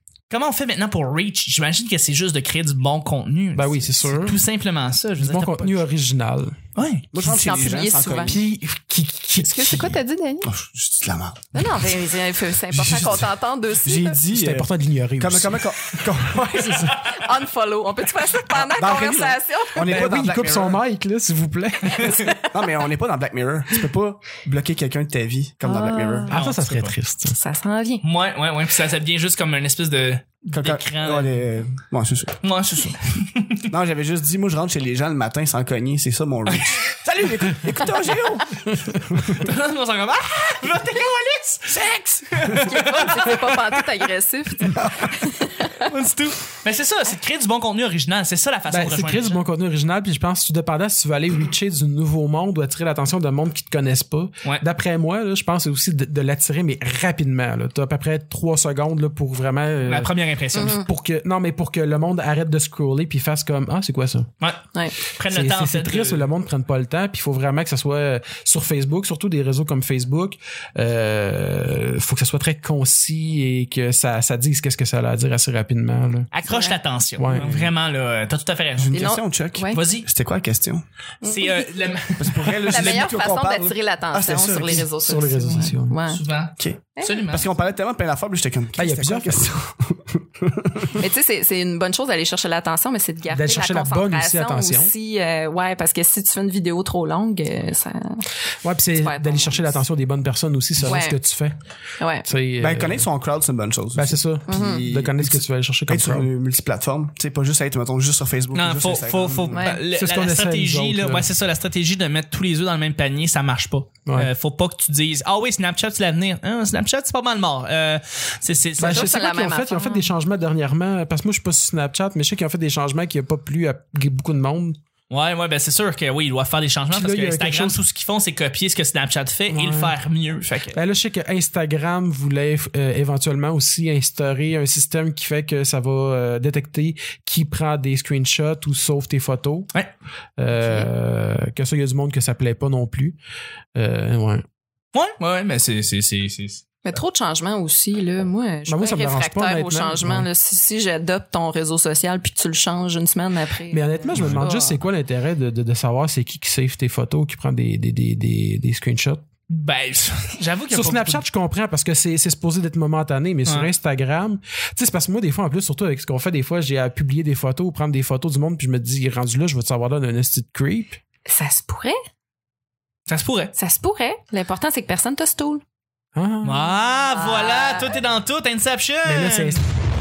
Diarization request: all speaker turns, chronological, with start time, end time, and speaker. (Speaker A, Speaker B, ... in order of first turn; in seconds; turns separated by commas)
Speaker A: 0.3-5.8, Speaker B: 3.5-4.4, Speaker B: 5.2-6.6, Speaker A: 6.8-7.1, Speaker C: 7.1-8.4, Speaker D: 7.2-8.4, Speaker B: 8.3-10.0, Speaker D: 9.4-10.5, Speaker C: 10.4-12.0, Speaker D: 11.5-14.2, Speaker C: 12.7-13.3, Speaker C: 13.8-14.7, Speaker B: 14.3-15.7, Speaker C: 15.2-17.2, Speaker D: 16.3-20.2, Speaker C: 18.5-20.8, Speaker B: 19.8-22.3, Speaker D: 22.1-22.7, Speaker C: 22.5-26.3, Speaker D: 25.6-26.3, Speaker B: 26.3-27.4, Speaker A: 26.3-26.9, Speaker D: 27.3-28.0, Speaker A: 28.0-31.4, Speaker C: 30.5-32.4, Speaker A: 32.4-33.7, Speaker C: 33.7-39.5, Speaker A: 39.3-43.7, Speaker D: 42.6-45.9, Speaker C: 44.7-45.2, Speaker A: 45.8-49.4, Speaker B: 48.7-64.3, Speaker A: 59.9-60.9, Speaker D: 60.5-60.9, Speaker A: 64.4-66.3, Speaker B: 65.3-76.3, Speaker A: 76.3-79.0, Speaker D: 76.5-76.8, Speaker B: 77.2-77.5, Speaker C: 77.3-77.7, Speaker C: 78.8-80.8, Speaker D: 78.9-79.8, Speaker A: 79.7-80.1, Speaker A: 81.2-83.1, Speaker D: 81.2-81.7, Speaker C: 82.2-84.9, Speaker D: 82.7-86.2, Speaker B: 84.8-86.0, Speaker A: 86.1-87.5, Speaker C: 86.6-91.0, Speaker B: 88.8-89.6, Speaker D: 90.9-98.3, Speaker B: 93.3-94.9, Speaker B: 98.6-101.6, Speaker D: 99.0-99.8, Speaker D: 100.8-101.2, Speaker D: 102.0-102.3, Speaker B: 102.2-103.1, Speaker C: 102.6-109.7, Speaker B: 104.0-106.3, Speaker D: 104.5-104.9, Speaker A: 108.5-119.1, Speaker D: 109.5-109.8, Speaker B: 109.9-111.3, Speaker B: 118.8-124.8, Speaker D: 118.8-120.1, Speaker A: 125.1-130.8, Speaker B: 126.9-127.8, Speaker B: 129.5-129.9, Speaker B: 130.7-139.7, Speaker B: 140.4-143.2, Speaker D: 140.5-140.9, Speaker B: 143.8-144.4, Speaker A: 144.9-146.6, Speaker D: 146.8-154.8, Speaker B: 148.7-150.3, Speaker B: 153.7-159.2, Speaker A: 159.5-161.2, Speaker B: 160.7-171.0, Speaker D: 171.3-172.0, Speaker A: 173.1-173.5, Speaker D: 173.6-175.6, Speaker B: 176.2-176.8, Speaker A: 176.4-179.6, Speaker D: 177.1-178.0, Speaker B: 179.0-179.7